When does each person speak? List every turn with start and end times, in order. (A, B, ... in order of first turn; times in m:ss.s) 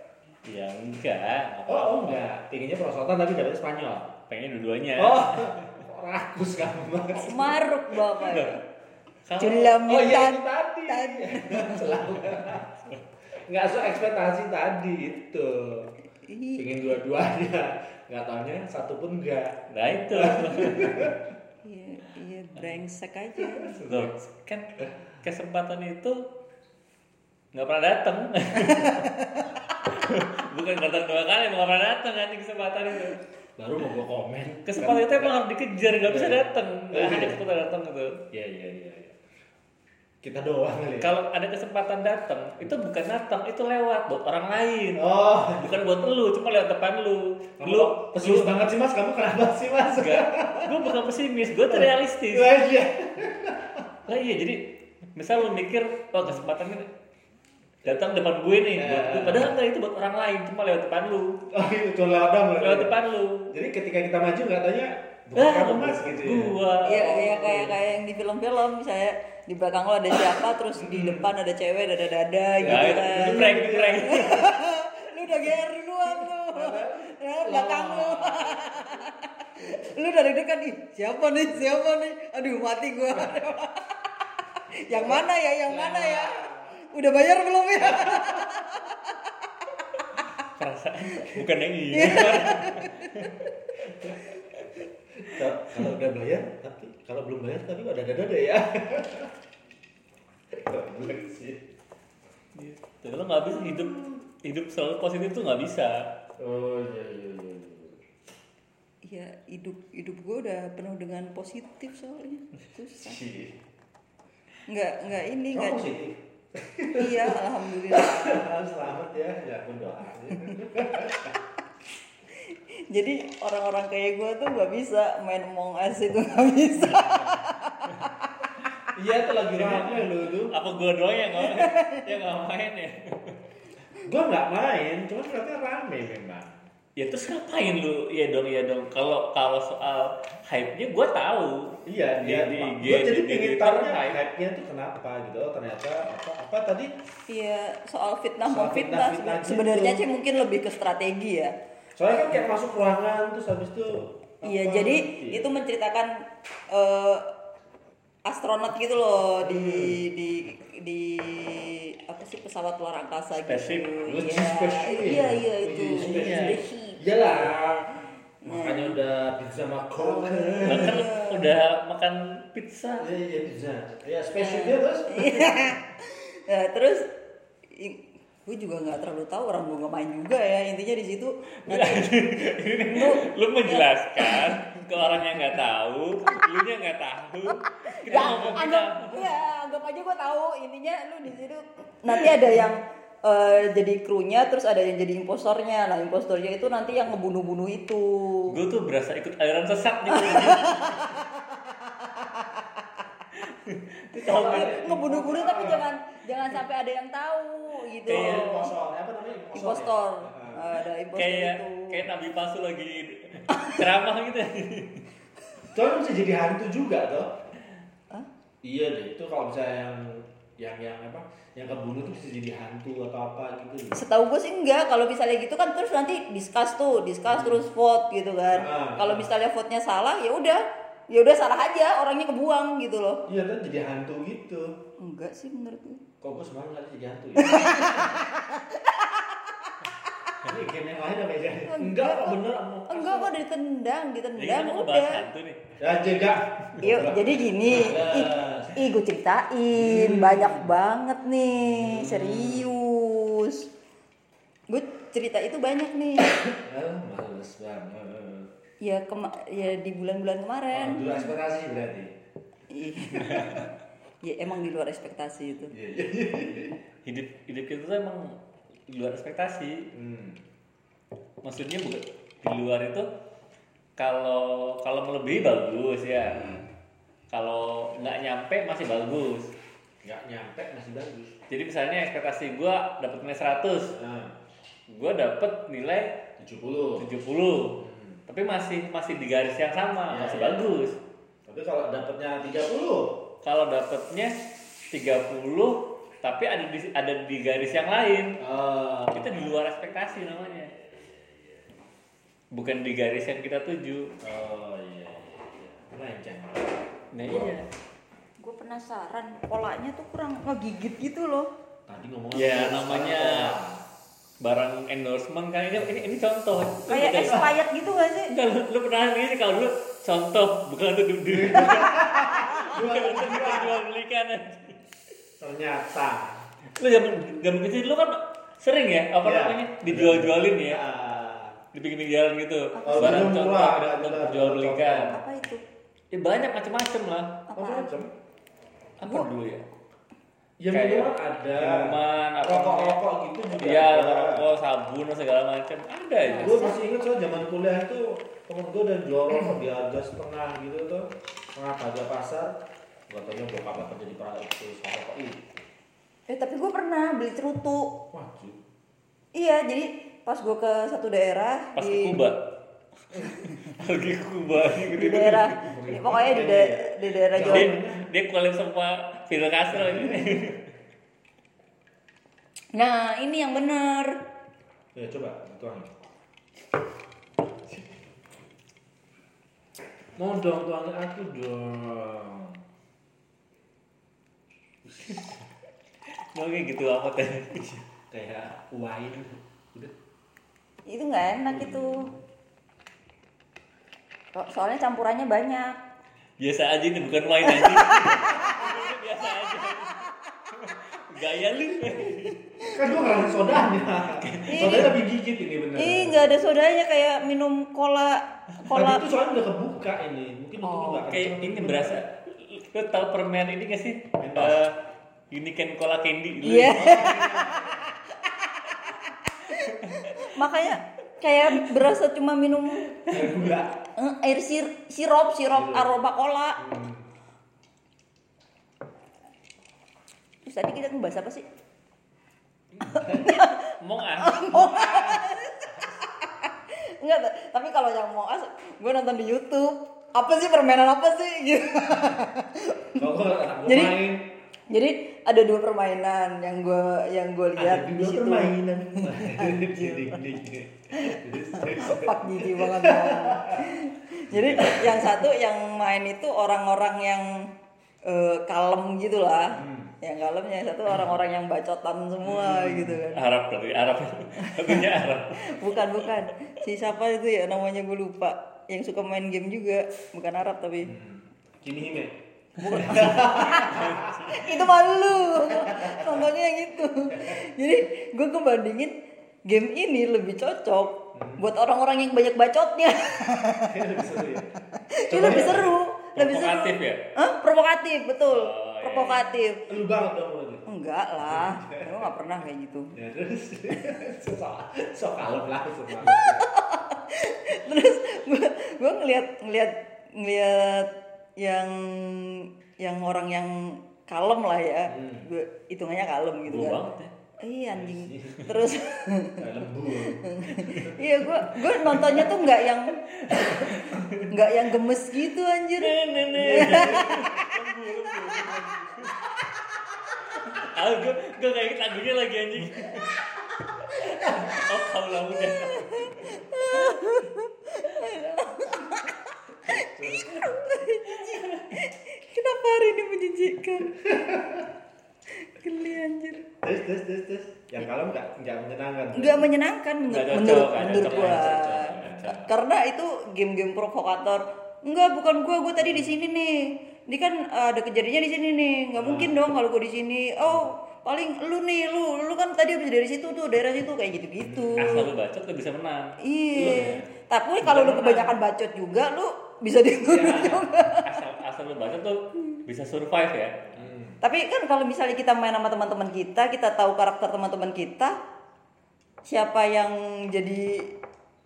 0:00.4-0:02.2 A
0:01.7-0:04.1 B
0:04.3-0:05.6 A
0:05.0-0:08.0 B
0:07.1-0:08.6 C
0:08.3-0:08.6 A
0:09.3-0:09.8 A
0:09.4-0:11.8 C
0:09.8-0:12.8 B
0:13.4-0:15.9 B
0:16.2-0:16.7 C
0:16.6-0:21.2 B
0:19.7-0:21.1 A
0:21.6-0:23.9 C
0:23.8-0:26.2 A
0:27.5-0:29.1 A
0:29.8-0:33.2 A
0:33.6-0:35.3 B
0:34.6-0:38.2 A
0:36.0-0:37.4 B
0:38.3-0:39.2 B
0:40.2-0:41.1 B
0:41.0-0:48.5 A
0:45.0-0:45.7 B
0:47.6-0:50.8 B
0:50.0-0:52.5 A
0:51.7-0:53.9 B
0:54.1-0:56.9 A
0:57.8-1:01.4 A
0:58.8-0:59.5 B
1:01.5-1:02.9 B
1:02.6-1:03.6 A
1:03.5-1:07.8 B
1:05.4-1:07.2 A
1:06.8-1:23.9 C
1:10.8-1:11.3 B
1:12.6-1:14.6 B
1:12.6-1:14.4 A
1:16.1-1:19.1 B
1:24.7-1:29.2 C
1:24.9-1:26.8 B
1:27.9-1:28.6 B
1:30.4-1:33.5 A
1:31.9-1:33.1 C
1:35.2-1:39.3 B
1:40.5-1:41.7 B
1:42.6-1:46.1 A
1:46.4-1:48.0 B
1:49.0-1:53.2 C
1:53.0-1:53.6 B
1:54.7-1:55.8 C
1:55.5-2:01.4 B
1:56.9-1:58.5 C
2:02.4-2:08.3 C
2:08.9-2:10.6 B
2:09.5-2:13.4 A
2:11.5-2:12.0 C
2:14.0-2:16.6 B
2:17.0-2:24.2 A
2:21.9-2:26.9 B
2:27.3-2:31.5 C
2:28.4-2:30.0 B
2:32.0-2:35.5 B
2:34.4-2:36.1 C
2:36.7-2:37.3 C
2:38.3-2:47.0 C
2:39.4-2:40.0 B
2:43.5-2:43.9 A
2:44.1-2:51.1 B
2:46.0-2:46.6 A
2:48.4-2:49.0 C
2:50.0-2:51.5 C
2:50.6-2:53.1 A
2:53.0-2:55.7 B
2:54.4-2:57.1 C
2:57.7-3:04.6 C
3:01.7-3:09.3 A
3:07.8-3:18.5 C
3:18.5-3:21.1 A
3:20.1-3:21.2 C
3:23.5-3:24.8 A
3:24.1-3:25.9 B
3:24.2-3:28.7 C
3:28.1-3:30.7 B
3:28.1-3:28.6 A
3:29.5-3:32.0 C
3:31.2-3:35.1 A
3:35.7-3:37.4 B
3:38.6-3:44.0 B
3:43.9-3:53.2 C
3:47.2-3:47.6 B
3:48.5-3:49.3 B
3:53.3-3:54.8 B
3:55.0-3:56.0 C
3:56.2-3:58.2 B
3:57.4-3:59.7 C
4:00.4-4:03.3 B
4:01.7-4:05.3 C
4:04.4-4:05.6 A
4:05.8-4:08.8 B
4:06.8-4:13.7 C
4:09.7-4:10.7 B
4:11.6-4:12.7 B
4:14.7-4:16.3 C
4:16.4-4:18.5 B
4:18.8-4:21.3 C
4:20.7-4:22.1 B
4:22.7-4:23.7 C
4:24.2-4:25.7 C
4:25.7-4:26.8 B
4:27.0-4:29.9 A
4:29.9-4:30.4 B
4:31.4-4:33.1 A
4:34.0-4:36.6 A
4:37.3-4:39.5 A
4:40.0-4:41.4 B
4:41.5-4:43.9 A
4:43.9-4:44.4 B
4:44.9-4:46.2 A
4:46.4-4:47.1 B
4:47.0-4:51.0 A
4:47.8-4:48.2 B
4:50.1-4:50.8 B
4:51.5-4:53.2 B
4:53.4-4:54.3 A
4:54.9-4:58.4 A
4:58.4-5:01.7 B
4:59.1-5:00.7 A
5:02.5-5:04.1 A
5:04.2-5:07.6 B
5:07.1-5:07.7 A
5:08.4-5:11.5 C
5:11.9-5:13.8 B
5:12.3-5:13.6 A
5:14.4-5:17.5 A
5:16.9-5:18.3 C
5:18.3-5:24.8 A
5:21.3-5:23.8 B
5:25.4-5:26.4 B
5:26.8-5:30.8 A
5:29.2-5:31.6 B
5:31.7-5:35.2 A
5:32.8-5:33.4 C
5:32.9-5:35.2 B
5:35.1-5:35.6 C
5:36.1-5:37.4 A
5:37.5-5:37.9 C
5:37.6-5:38.1 B
5:39.0-5:39.6 A
5:40.6-5:44.5 B
5:40.7-5:43.0 A
5:43.5-5:46.7 A
5:46.2-5:46.8 C
5:46.4-5:52.6 B
5:53.1-5:55.6 B
5:56.3-5:58.0 C
5:58.1-5:58.6 B
5:59.4-6:02.2 C
6:01.8-6:02.5 A
6:03.2-6:05.7 A
6:04.9-6:07.7 C
6:05.6-6:08.1 B
6:07.4-6:10.7 A
6:09.7-6:10.4 B
6:12.7-6:14.2 C
6:15.0-6:15.9 B
6:20.2-6:22.6 B
6:24.8-6:25.3 B
6:26.3-6:27.8 A
6:28.1-6:29.9 B
6:30.9-6:32.1 C
6:31.5-6:32.2 B
6:34.3-6:35.8 C
6:36.4-6:42.7 A
6:37.4-6:38.9 C
6:42.6-6:43.1 C
6:42.6-6:46.4 B
6:44.1-6:44.9 A
6:44.5-6:44.9 C
6:45.8-6:49.0 C
6:48.7-6:52.0 B
6:50.6-6:51.0 C
6:51.0-6:54.8 A
6:54.2-6:54.6 B
6:55.3-6:57.4 A
6:56.4-6:57.8 C
6:56.7-6:57.9 B
6:59.4-7:03.0 C
6:59.9-7:00.3 A
7:03.1-7:03.8 B
7:04.0-7:06.6 C
7:05.5-7:05.9 B
7:06.6-7:07.1 B
7:10.4-7:11.4 C
7:12.8-7:13.3 B
7:12.9-7:23.0 C
7:13.2-7:14.6 A
7:14.5-7:15.4 B
7:23.0-7:24.3 B
7:23.7-7:24.0 C
7:24.7-7:30.3 C
7:27.6-7:33.8 B
7:31.0-7:37.4 C
7:34.3-7:35.2 B
7:38.0-7:43.2 C
7:39.5-7:39.9 B
7:42.3-7:43.0 B
7:43.1-7:46.0 A
7:44.4-7:44.9 C
7:45.4-7:50.9 C
7:50.8-7:54.3 B
7:52.6-7:59.0 C
7:52.8-7:54.7 A
7:55.5-7:56.3 B
7:57.1-7:57.4 B
7:59.5-8:03.8 C
8:01.1-8:01.4 B
8:03.7-8:05.8 B
8:04.9-8:09.6 C
8:06.2-8:07.0 A
8:08.3-8:09.4 A
8:09.7-8:10.7 B
8:10.7-8:12.9 C
8:11.3-8:12.1 B
8:12.9-8:16.5 B
8:16.1-8:26.8 C
8:24.9-8:25.3 B
8:26.5-8:27.1 A
8:27.4-8:33.7 C
8:27.7-8:28.6 B
8:29.4-8:31.5 B
8:33.2-8:34.3 A
8:34.3-8:37.6 C
8:35.8-8:39.2 A
8:36.4-8:37.4 B
8:40.4-8:43.1 A
8:43.9-8:46.5 A
8:45.5-8:54.0 C
8:49.6-8:50.5 B
8:51.2-8:51.7 A
8:53.9-8:54.7 B
8:55.4-8:56.5 C
8:56.6-8:59.5 B
8:59.1-9:15.1 C
9:00.1-9:02.5 A
9:00.8-9:02.4 B
9:09.0-9:09.3 B
9:14.4-9:15.1 B
9:14.8-9:16.9 A
9:16.2-9:21.1 C
9:16.6-9:17.1 B
9:17.7-9:18.1 B
9:17.7-9:18.3 A
9:20.1-9:23.9 A
9:23.8-9:24.2 B
9:24.2-9:28.2 C
9:29.2-9:30.9 C